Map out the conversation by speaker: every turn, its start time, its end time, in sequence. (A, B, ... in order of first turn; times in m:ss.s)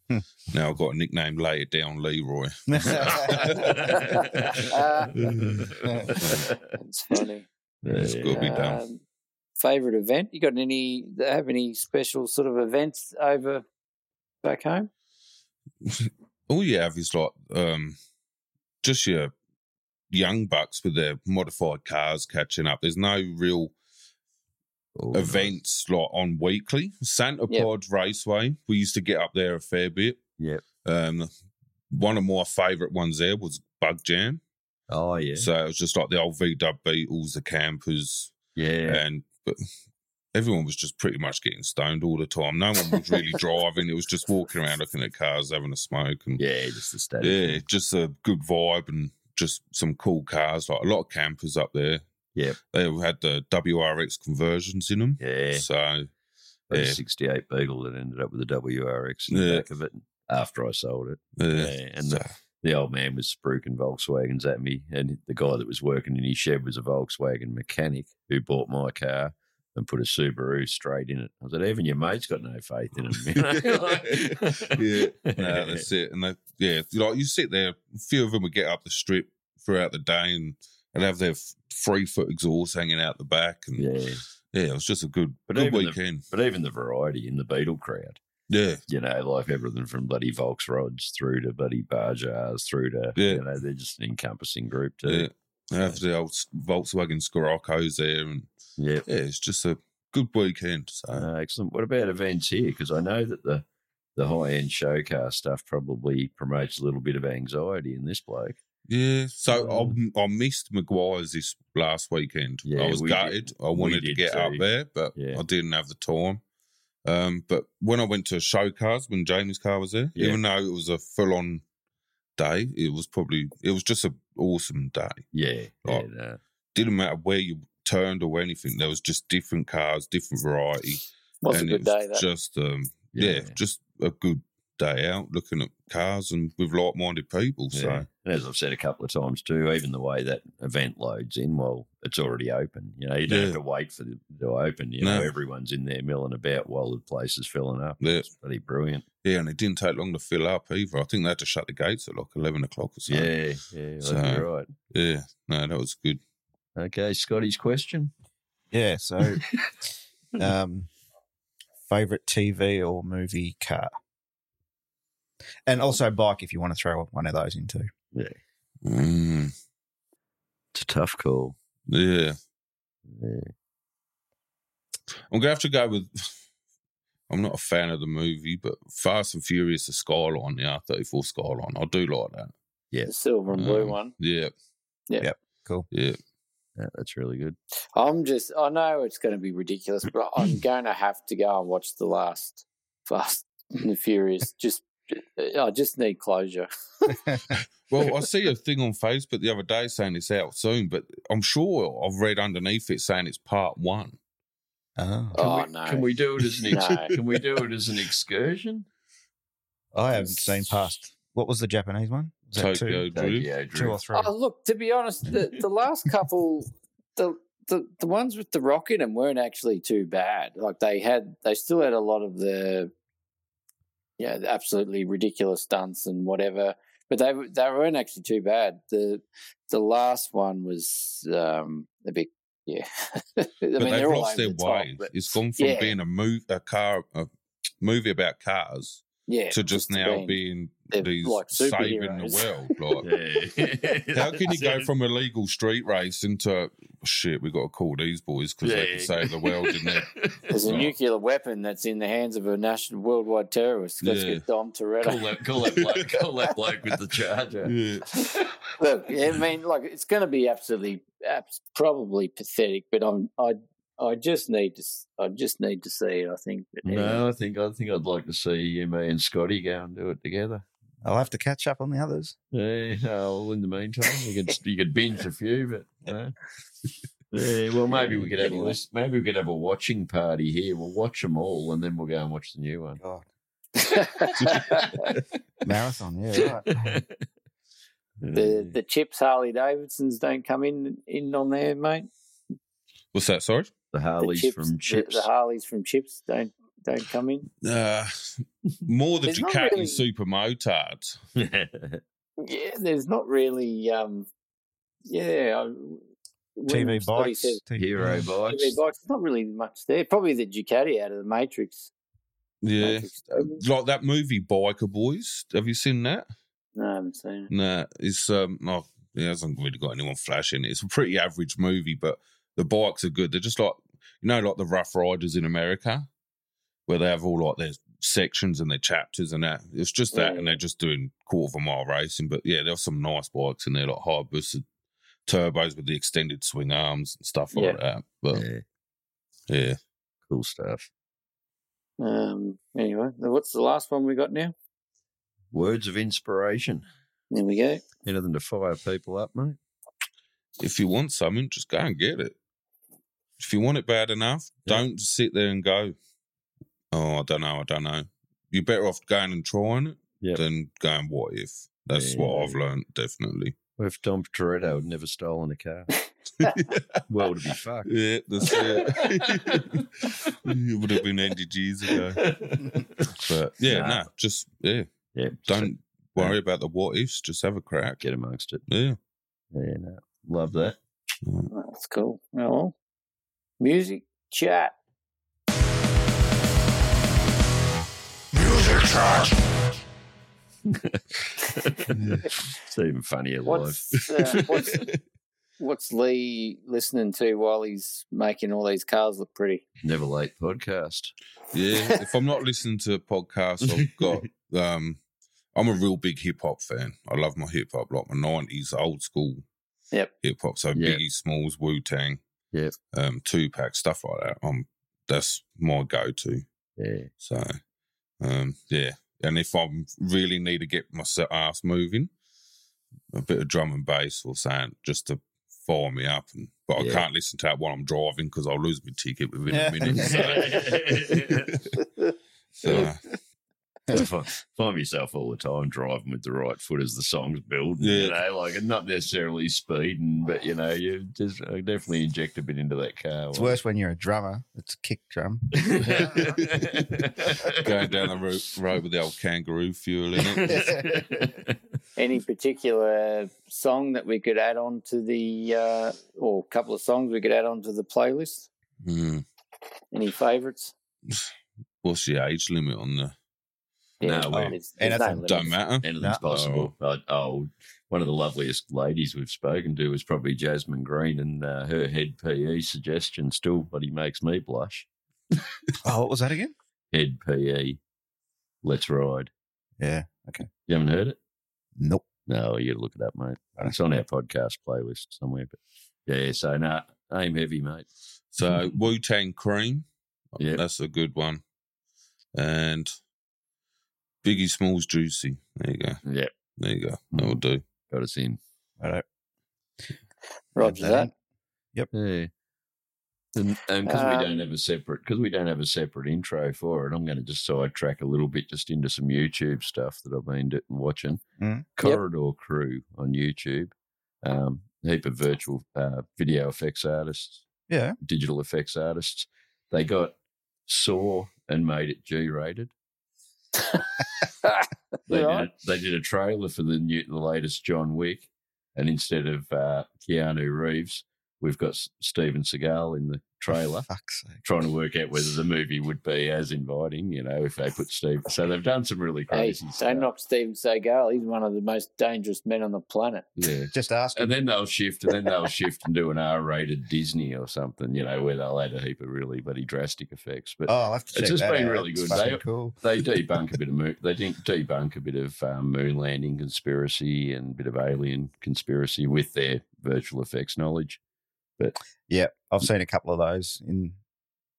0:00.5-0:04.2 A
0:02.7-0:03.8 B
0:02.8-0:06.6 C
0:03.9-0:05.1 D
0:05.2-0:06.5 A
0:06.7-0:07.5 D
0:07.8-0:08.6 C
0:07.9-0:08.8 A
0:08.3-0:09.0 D
0:09.6-0:13.6 D
0:14.4-0:14.9 D
0:15.8-0:18.0 A
0:18.8-0:19.3 A
0:20.1-0:23.7 A
0:25.0-0:25.5 C
0:25.1-0:30.2 A
0:30.8-0:31.3 A
0:31.9-0:34.4 A
0:34.9-0:35.5 C
0:35.4-0:38.3 A
0:38.5-0:39.0 C
0:38.8-0:39.6 A
0:40.3-0:46.4 A
0:46.4-0:47.6 C
0:47.2-0:52.0 A
0:52.7-0:56.1 A
0:55.2-0:55.6 C
0:56.7-0:57.0 A
0:56.7-1:15.9 C
0:59.3-0:59.6 A
1:01.4-1:02.3 A
1:13.3-1:23.9 A
1:23.8-1:24.2 C
1:24.5-1:26.2 A
1:25.5-1:28.2 C
1:28.5-1:28.8 A
1:28.9-1:36.0 C
1:33.2-1:33.4 A
1:35.0-1:38.5 A
1:38.8-1:39.0 C
1:39.0-1:41.3 A
1:41.1-1:48.6 C
1:48.9-1:56.4 A
1:49.5-1:50.0 C
1:52.6-1:55.4 C
1:57.0-2:01.6 A
2:00.1-2:00.4 C
2:02.4-2:05.2 A
2:05.3-2:06.4 C
2:06.7-2:18.1 A
2:11.4-2:12.2 D
2:13.1-2:13.6 C
2:17.7-2:29.0 C
2:23.3-2:23.6 A
2:25.0-2:25.3 A
2:28.0-2:28.3 A
2:29.2-2:33.3 A
2:33.1-2:34.7 C
2:34.0-2:36.2 A
2:36.8-2:38.1 C
2:38.7-2:39.6 B
2:40.4-2:40.9 B
2:41.9-2:43.9 B
2:45.6-2:47.9 B
2:48.1-2:48.4 C
2:48.8-2:49.5 A
2:50.7-2:51.6 C
2:51.9-2:52.4 A
2:53.0-2:53.5 C
2:55.3-2:56.4 A
2:57.3-3:02.5 A
3:03.1-3:04.1 D
3:03.5-3:04.5 A
3:05.2-3:05.9 B
3:05.9-3:06.2 A
3:06.8-3:07.6 C
3:07.9-3:16.7 D
3:17.3-3:17.6 B
3:17.9-3:24.2 A
3:25.0-3:25.4 B
3:25.3-3:26.1 D
3:25.4-3:28.9 C
3:26.7-3:27.2 D
3:29.9-3:33.1 B
3:32.6-3:33.5 A
3:33.1-3:34.0 C
3:33.7-3:34.3 B
3:34.1-3:42.9 D
3:44.2-3:56.0 D
3:53.8-3:57.3 A
3:57.8-4:03.0 A
3:59.3-4:00.4 D
4:00.9-4:02.8 D
4:03.0-4:04.9 C
4:04.1-4:10.1 A
4:08.6-4:10.8 C
4:10.5-4:15.3 D
4:10.6-4:10.9 A
4:14.0-4:14.4 A
4:15.0-4:18.4 C
4:15.6-4:16.1 A
4:17.6-4:18.1 A
4:18.8-4:27.2 D
4:26.8-4:30.6 C
4:31.0-4:32.3 B
4:32.5-4:36.3 C
4:37.3-4:43.0 C
4:37.9-4:38.8 D
4:43.8-4:45.1 D
4:44.4-4:45.2 C
4:45.6-4:47.0 B
4:46.4-4:47.2 C
4:48.2-4:48.7 C
4:48.3-4:52.1 D
4:53.1-4:53.7 A
4:53.9-4:55.3 C
4:54.2-4:57.5 D
4:57.6-5:01.2 A
4:59.2-5:00.0 D
5:01.4-5:02.0 C
5:02.4-5:04.3 D
5:05.0-5:06.0 D
5:06.6-5:07.6 D
5:06.7-5:08.3 B
5:07.8-5:08.8 C
5:08.4-5:11.9 D
5:12.6-5:16.2 A
5:12.8-5:13.6 D
5:16.7-5:17.5 D
5:17.5-5:26.1 A
5:26.9-5:34.6 A
5:30.1-5:30.6 D
5:35.3-5:38.4 A
5:37.5-5:37.8 D
5:38.3-5:38.6 C
5:39.5-5:39.8 A
5:40.3-5:40.9 C
5:42.0-5:44.5 D
5:45.5-5:46.8 C
5:47.3-5:47.8 D
5:48.0-5:49.6 C
5:50.6-5:52.3 A
5:53.4-5:55.9 A
5:56.9-6:03.5 A
6:01.9-6:02.6 C
6:03.8-6:05.9 C
6:07.0-6:07.9 C
6:07.8-6:12.2 A
6:08.5-6:10.3 C
6:11.9-6:14.1 C
6:13.1-6:14.9 A
6:15.1-6:16.4 C
6:15.5-6:18.0 A
6:18.0-6:18.6 C
6:18.7-6:19.0 A
6:19.5-6:20.8 C
6:21.2-6:21.5 A
6:21.5-6:22.7 D
6:23.6-6:24.7 D
6:30.6-6:34.9 C
6:31.9-6:32.3 A
6:33.4-6:34.9 D
6:35.6-6:39.6 D
6:39.8-6:41.1 C
6:41.5-6:45.0 A
6:43.6-6:44.1 C
6:45.5-6:49.4 A
6:50.2-6:52.2 A
6:50.7-6:51.0 C
6:52.9-6:56.4 A
6:56.8-6:57.1 C
6:57.2-6:57.6 A
6:58.2-7:02.1 A
7:03.1-7:11.1 A
7:06.8-7:07.0 C
7:09.5-7:10.6 B
7:09.8-7:11.6 C
7:12.6-7:13.0 A
7:12.6-7:12.9 C
7:13.9-7:23.6 C
7:17.8-7:18.2 A
7:23.3-7:26.4 B
7:25.6-7:27.9 C
7:26.2-7:26.6 A
7:27.5-7:30.8 A
7:30.3-7:31.6 C
7:30.4-7:30.9 B
7:32.0-7:38.5 D
7:38.8-7:39.2 A
7:39.9-7:40.7 D
7:41.8-7:43.1 A
7:44.0-7:45.6 D
7:44.0-7:44.6 C
7:44.3-7:45.2 B
7:45.2-7:46.7 A
7:45.8-7:55.4 C
7:55.8-7:56.5 B
7:56.9-7:57.8 C
7:58.6-7:59.3 C
7:59.8-8:00.5 B
8:00.7-8:01.2 C
8:01.8-8:02.0 B
8:02.3-8:07.9 C
8:08.3-8:11.4 A
8:12.3-8:12.9 A
8:14.2-8:16.0 A
8:16.0-8:16.3 C
8:16.6-8:17.6 A
8:17.1-8:18.4 C
8:20.5-8:21.1 D
8:20.6-8:21.1 B
8:21.9-8:22.3 C
8:23.3-8:31.2 C
8:23.8-8:24.4 D
8:31.4-8:31.7 B
8:31.8-8:37.4 C
8:37.7-8:38.0 B
8:38.0-8:42.7 C
8:43.7-8:45.5 D
8:45.1-8:53.9 C
8:53.9-8:54.4 B
8:54.4-9:00.1 C
8:59.3-9:03.3 D
9:03.4-9:21.0 C
9:03.7-9:04.3 B
9:10.7-9:12.8 B
9:22.1-9:24.0 B